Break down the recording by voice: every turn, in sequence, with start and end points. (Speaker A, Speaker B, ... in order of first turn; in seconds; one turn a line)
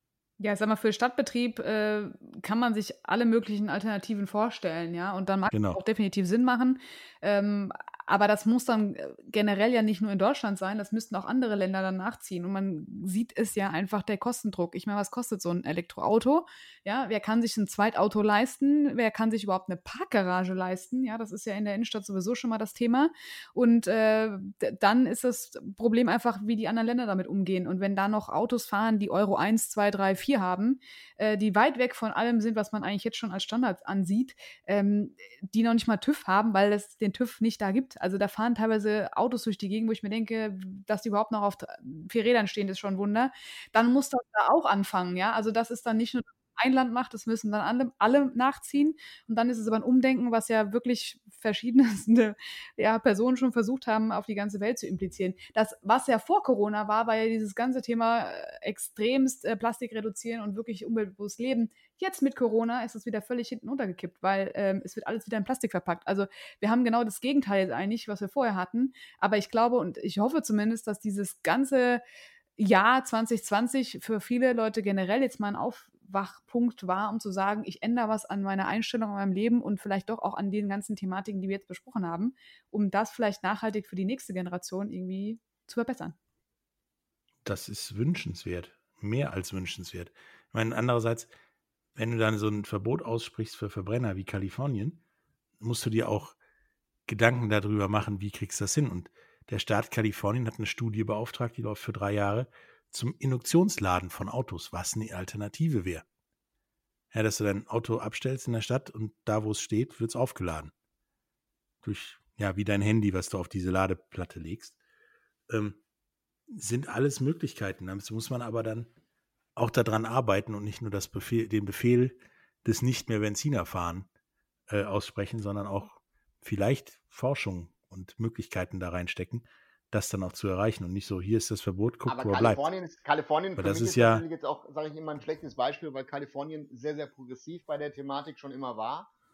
Speaker A: 0.4-72.0
Speaker B: 5.5-5.8
Speaker A: 72.6-86.2
Speaker B: 87.5-91.3
Speaker B: 92.0-95.0
Speaker B: 95.6-96.4
Speaker B: 97.1-106.0
Speaker B: 107.1-110.7
Speaker B: 111.8-114.8
Speaker B: 115.5-115.8
Speaker B: 116.5-118.9
Speaker B: 119.6-124.1
Speaker B: 124.7-132.7
Speaker C: 132.1-139.1
Speaker B: 133.6-134.2